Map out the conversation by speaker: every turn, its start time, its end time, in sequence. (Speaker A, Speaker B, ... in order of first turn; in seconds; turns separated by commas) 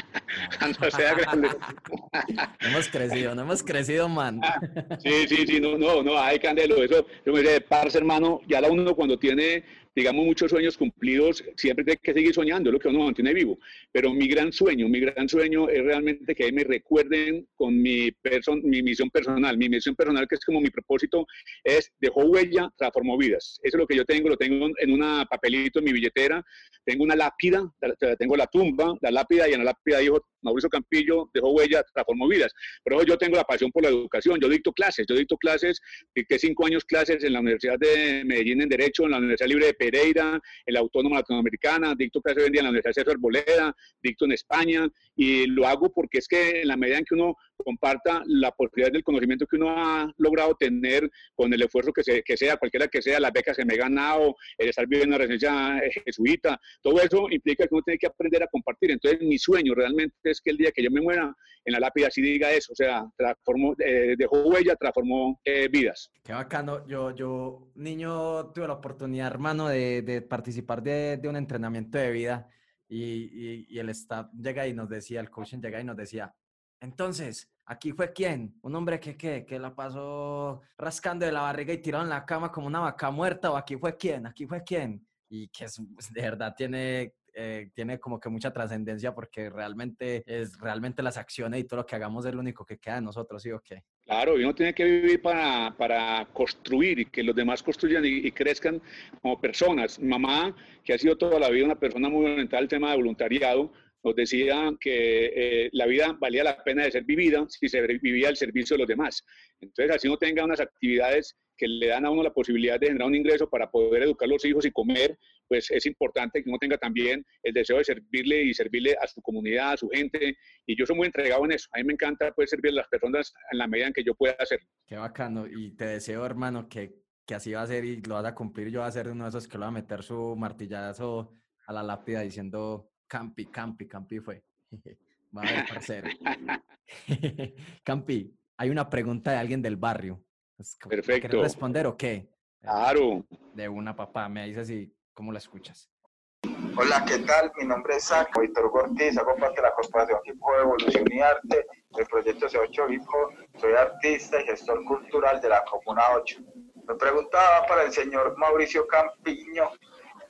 Speaker A: 0.3-2.5, Speaker B: 0.4-1.7, Speaker B: 2.4-5.0, Speaker A: 4.5-66.1, Speaker B: 66.2-93.8, Speaker A: 94.1-124.6, Speaker B: 124.9-136.1, Speaker A: 135.5-136.6, Speaker B: 136.9-142.8, Speaker A: 140.9-141.6, Speaker A: 142.7-143.3, Speaker B: 143.5-145.9, Speaker C: 146.7-159.7